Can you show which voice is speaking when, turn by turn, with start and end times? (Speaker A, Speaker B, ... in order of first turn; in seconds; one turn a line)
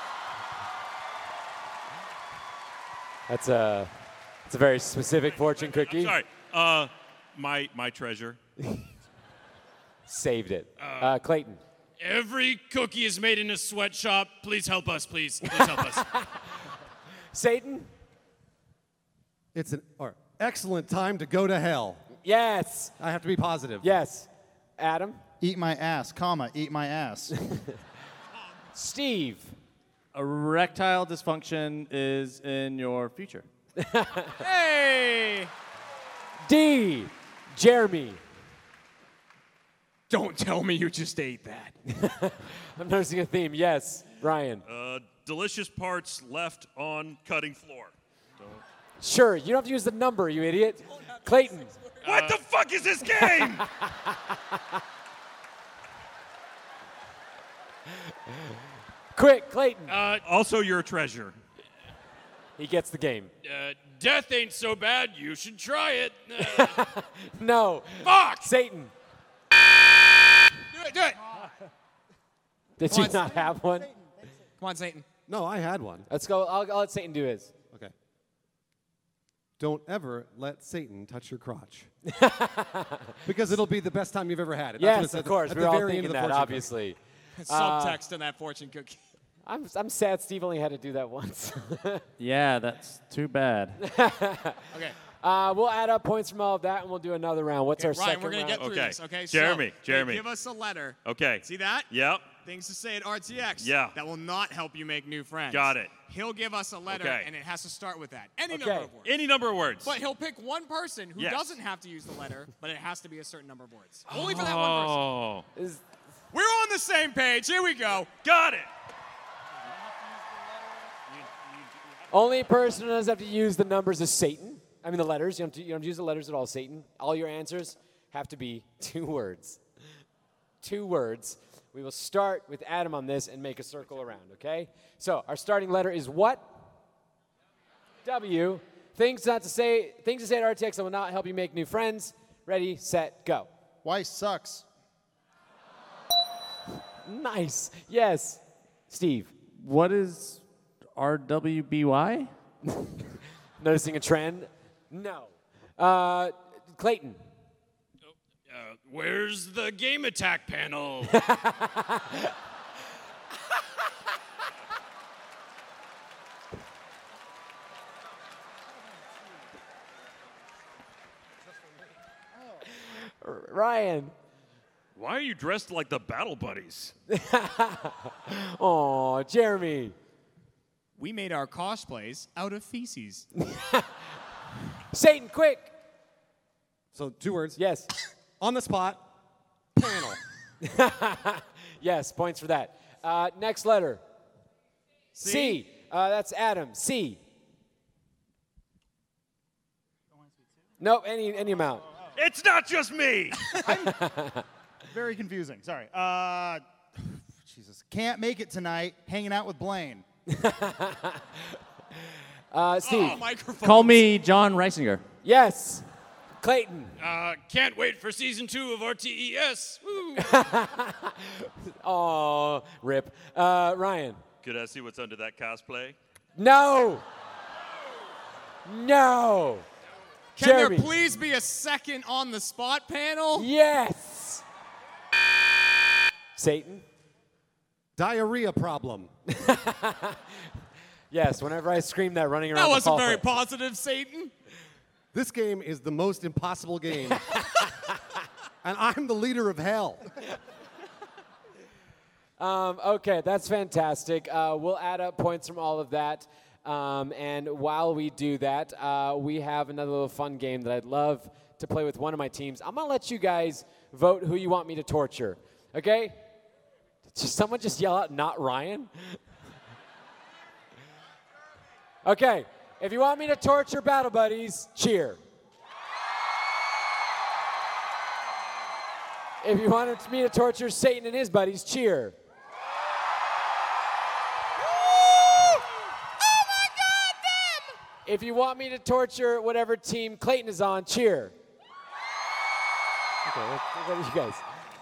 Speaker A: 3.3-3.9
Speaker A: 4.5-6.2
Speaker B: 5.2-8.4
Speaker A: 10.1-11.6
Speaker C: 10.8-11.1
Speaker C: 12.0-16.1
Speaker A: 15.5-16.3
Speaker A: 17.3-17.9
Speaker D: 19.5-22.0
Speaker A: 22.2-22.9
Speaker D: 23.0-23.9
Speaker A: 23.8-25.2
Speaker E: 25.4-27.3
Speaker A: 27.5-27.8
Speaker A: 28.8-29.5
Speaker F: 30.1-33.5
Speaker A: 33.8-34.4
Speaker G: 34.4-35.5
Speaker A: 36.5-38.2
Speaker G: 40.1-41.8
Speaker A: 41.9-44.6
Speaker B: 44.7-47.9
Speaker A: 49.0-51.7
Speaker G: 50.9-52.4
Speaker B: 52.0-53.7
Speaker A: 53.3-54.6
Speaker A: 59.1-60.0
Speaker C: 59.9-60.2
Speaker B: 60.2-61.4
Speaker A: 62.6-63.3
Speaker C: 63.4-66.8
Speaker A: 66.5-68.9
Speaker C: 68.0-68.5
Speaker G: 70.7-71.4
Speaker A: 72.8-73.9
Speaker G: 72.8-73.5
Speaker G: 74.6-75.1
Speaker D: 75.3-76.1
Speaker A: 76.1-77.5
Speaker D: 79.6-81.9
Speaker A: 82.1-83.2
Speaker D: 83.3-86.7
Speaker A: 84.8-88.0
Speaker G: 87.4-89.0
Speaker A: 89.5-92.1
Speaker F: 92.2-93.8
Speaker A: 93.8-98.6
Speaker G: 94.7-95.0
Speaker G: 97.8-101.9
Speaker B: 98.6-100.3
Speaker B: 101.0-102.3
Speaker G: 102.4-109.2
Speaker B: 103.6-104.0
Speaker B: 105.5-106.0
Speaker B: 106.9-107.3
Speaker A: 108.5-108.9
Speaker B: 109.0-110.0
Speaker G: 109.8-115.1
Speaker B: 111.2-111.6
Speaker B: 114.1-115.5
Speaker A: 115.6-115.8
Speaker G: 116.3-118.1
Speaker B: 118.2-118.7
Speaker A: 122.1-129.6
Speaker A: 130.6-136.5
Speaker A: 138.0-143.5
Speaker E: 143.8-144.7
Speaker A: 147.1-149.3
Speaker F: 149.6-150.4
Speaker F: 150.9-152.3
Speaker A: 153.6-157.2
Speaker C: 158.5-161.2
Speaker A: 161.1-162.3
Speaker A: 172.8-174.1
Speaker B: 175.0-176.9
Speaker A: 177.1-179.9
Speaker G: 181.0-183.3
Speaker A: 183.4-183.9
Speaker A: 184.9-185.7
Speaker D: 186.9-187.6
Speaker A: 187.6-187.9
Speaker D: 188.4-189.1
Speaker D: 189.8-190.2
Speaker A: 190.6-194.0
Speaker A: 195.2-197.2
Speaker G: 195.2-195.6
Speaker A: 200.8-201.9
Speaker B: 202.2-203.7
Speaker E: 203.7-203.9
Speaker A: 203.8-204.4
Speaker E: 204.9-210.1
Speaker A: 210.3-211.4
Speaker A: 212.5-213.2
Speaker G: 212.8-214.0
Speaker F: 213.6-215.0
Speaker A: 215.2-215.8
Speaker A: 216.4-216.9
Speaker C: 217.0-220.3
Speaker A: 220.2-224.2
Speaker B: 224.4-226.0
Speaker A: 226.4-227.0
Speaker A: 228.7-229.7
Speaker G: 230.4-233.5
Speaker A: 230.4-230.9
Speaker A: 233.3-234.4
Speaker A: 236.4-236.8
Speaker D: 238.0-239.1
Speaker A: 239.3-240.4
Speaker A: 241.1-243.3
Speaker G: 242.5-244.3
Speaker D: 245.1-247.2
Speaker D: 248.6-250.0
Speaker A: 252.4-266.2
Speaker A: 267.1-269.2
Speaker A: 272.0-275.2
Speaker A: 279.4-282.2
Speaker A: 288.1-291.3
Speaker A: 293.3-294.4